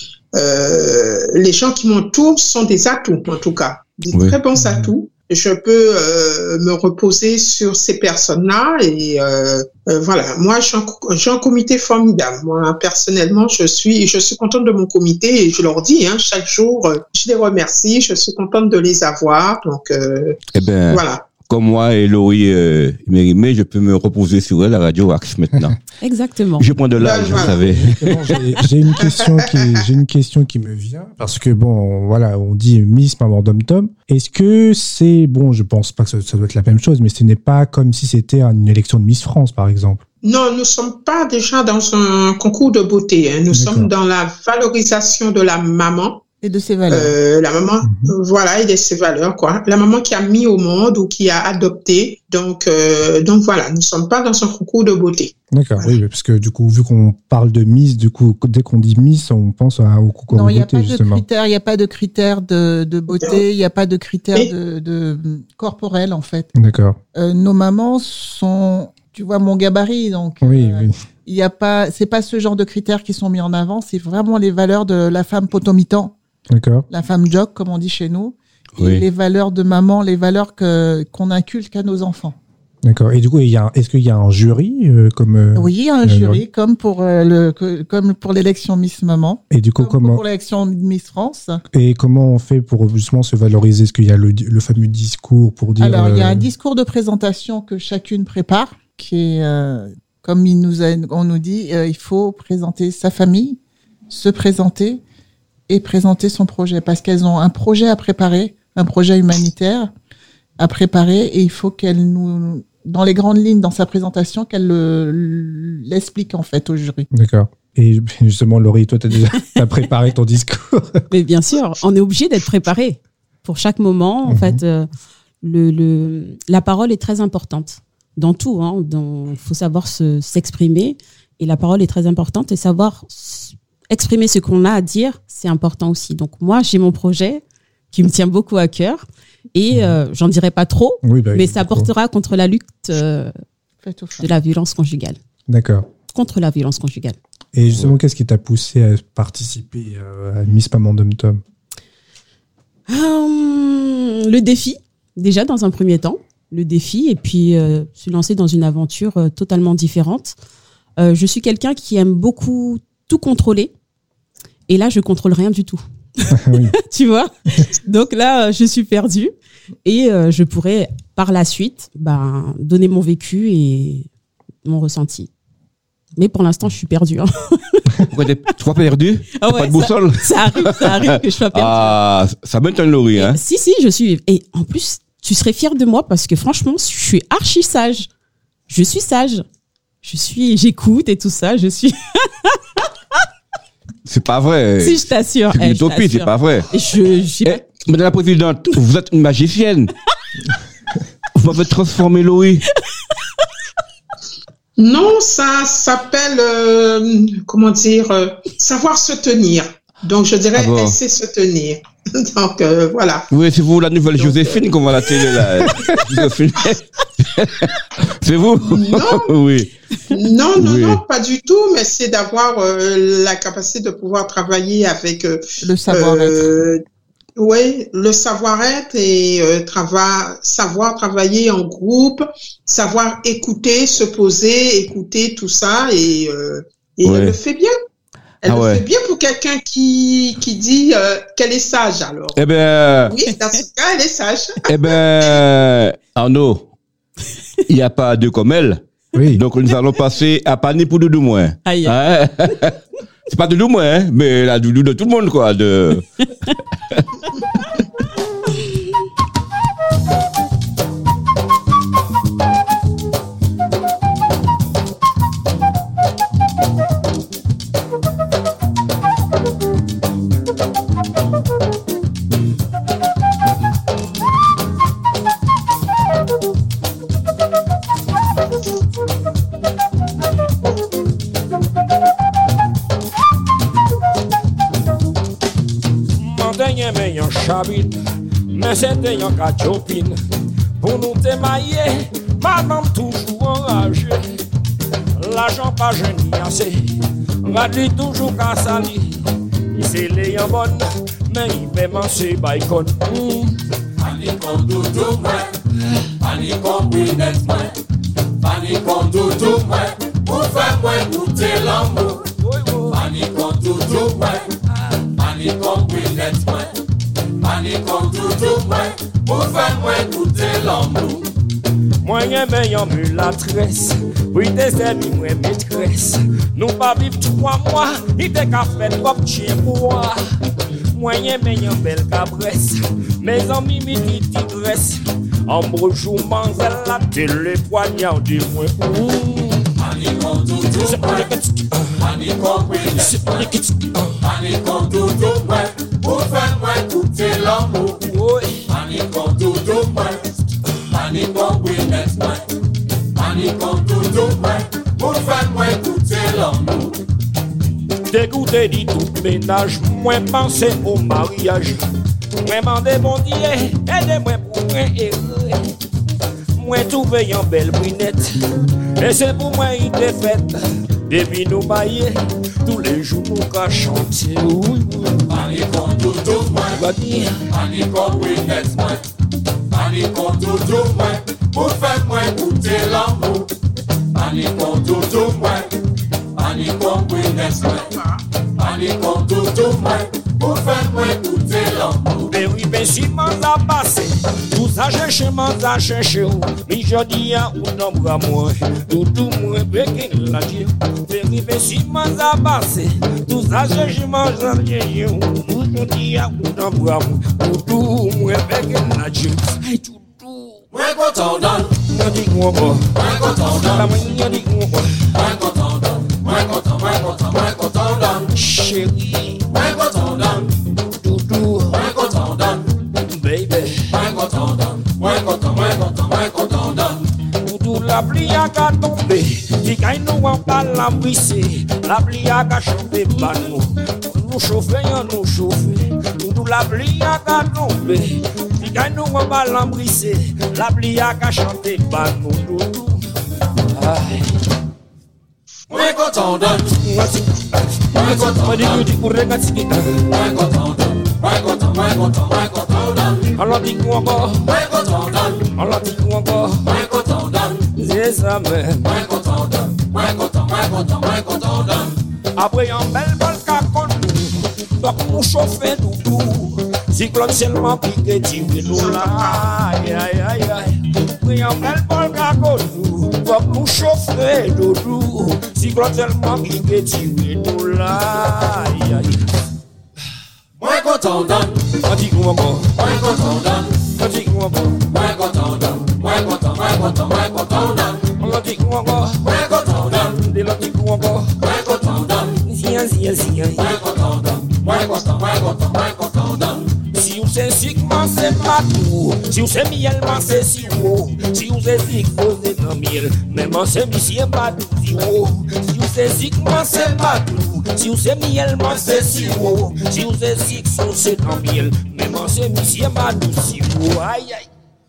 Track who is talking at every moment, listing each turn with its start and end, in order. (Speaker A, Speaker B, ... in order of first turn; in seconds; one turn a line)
Speaker A: 0.3-20.4
Speaker B: 4.1-4.4
Speaker C: 4.5-4.9
Speaker B: 20.5-25.8
Speaker A: 20.9-21.2
Speaker D: 26.0-26.7
Speaker B: 26.6-28.3
Speaker A: 27.0-27.6
Speaker C: 27.3-40.0
Speaker A: 29.0-29.7
Speaker A: 40.2-46.2
Speaker C: 43.5-43.9
Speaker E: 46.4-47.1
Speaker A: 46.9-55.9
Speaker C: 47.8-48.1
Speaker C: 55.5-61.2
Speaker E: 60.3-66.5
Speaker C: 66.5-67.0
Speaker E: 67.1-76.2
Speaker C: 70.4-70.9
Speaker C: 76.5-76.9
Speaker E: 76.9-82.3
Speaker B: 78.8-79.0
Speaker C: 82.8-86.4
Speaker E: 85.5-91.6
Speaker C: 89.5-90.2
Speaker C: 91.7-96.5
Speaker E: 95.8-103.6
Speaker E: 104.1-105.0
Speaker E: 105.7-109.9
Speaker E: 110.6-117.1
Speaker C: 117.1-121.0
Speaker D: 121.1-124.9
Speaker C: 124.3-124.6
Speaker D: 125.4-143.3
Speaker C: 139.7-140.0
Speaker C: 141.0-141.9
Speaker E: 143.8-144.3
Speaker D: 144.2-145.2
Speaker C: 145.5-145.9
Speaker D: 146.1-147.2
Speaker C: 147.5-151.4
Speaker D: 152.9-160.3
Speaker D: 161.0-163.7
Speaker D: 164.7-169.3
Speaker C: 166.3-166.7
Speaker D: 169.8-174.1
Speaker D: 174.6-175.3
Speaker D: 176.2-178.1
Speaker B: 178.1-183.4
Speaker D: 179.4-182.0
Speaker D: 183.1-188.1
Speaker D: 188.7-189.4
Speaker D: 190.0-192.6
Speaker B: 194.1-196.7
Speaker D: 194.8-197.6
Speaker B: 197.4-199.9
Speaker B: 201.3-202.6
Speaker A: 204.8-213.3
Speaker B: 210.6-211.0
Speaker B: 213.3-219.7
Speaker A: 214.2-215.4
Speaker A: 218.7-219.3
Speaker A: 220.1-226.8
Speaker B: 220.6-221.0
Speaker E: 225.6-226.6
Speaker A: 227.4-237.7
Speaker B: 237.0-237.3
Speaker A: 238.4-242.4
Speaker B: 238.5-238.8
Speaker B: 242.3-243.1
Speaker A: 243.1-244.7
Speaker B: 244.7-246.7
Speaker B: 247.7-248.8
Speaker C: 249.1-249.4
Speaker B: 249.3-256.1
Speaker D: 251.6-251.9
Speaker F: 286.1-288.0
Speaker F: 288.5-290.2
Speaker F: 290.8-294.2
Speaker F: 295.1-299.2
Speaker F: 299.7-303.6
Speaker G: 304.0-305.6
Speaker G: 306.2-307.8
Speaker G: 308.4-312.2
Speaker F: 312.3-313.0
Speaker G: 312.9-314.6
Speaker G: 315.1-316.8
Speaker G: 317.4-321.3
Speaker F: 322.0-330.2
Speaker F: 330.9-339.8
Speaker G: 339.8-341.3
Speaker F: 340.7-342.0
Speaker G: 342.0-343.5
Speaker F: 342.8-344.2
Speaker G: 344.2-348.0
Speaker F: 348.0-348.6
Speaker G: 348.7-350.3
Speaker G: 350.9-352.4
Speaker G: 353.1-357.0
Speaker F: 358.1-361.8
Speaker F: 362.4-365.7
Speaker F: 366.6-368.3
Speaker F: 369.0-375.3
Speaker G: 375.3-376.8
Speaker F: 376.7-377.4
Speaker G: 377.5-379.0
Speaker G: 379.7-383.5
Speaker G: 384.1-385.7
Speaker G: 386.3-387.9
Speaker A: 387.5-388.2
Speaker G: 388.6-392.3
Speaker F: 392.3-410.6
Speaker G: 410.7-411.8
Speaker F: 411.8-413.0
Speaker G: 413.0-413.8
Speaker F: 413.6-415.1
Speaker G: 415.2-418.2
Speaker F: 418.3-419.5
Speaker G: 419.5-420.4
Speaker F: 421.0-421.9
Speaker G: 421.9-422.6
Speaker F: 423.1-424.0
Speaker G: 424.0-426.9
Speaker F: 427.4-443.0
Speaker F: 443.7-444.3
Speaker G: 445.7-446.6
Speaker F: 446.6-450.2
Speaker G: 448.1-448.6
Speaker G: 450.3-453.0
Speaker F: 453.2-454.5
Speaker G: 454.5-455.4
Speaker F: 455.4-456.8
Speaker G: 456.8-457.5
Speaker F: 457.6-459.1
Speaker G: 459.9-461.7
Speaker F: 462.4-479.2
Speaker A: 468.6-469.5
Speaker G: 480.6-481.6
Speaker F: 481.7-482.9
Speaker G: 483.0-483.6
Speaker F: 483.8-484.9
Speaker G: 485.0-487.9
Speaker F: 488.0-491.4
Speaker G: 489.4-489.8
Speaker G: 491.5-492.2
Speaker F: 492.3-493.8
Speaker G: 494.6-496.4
Speaker F: 496.9-514.5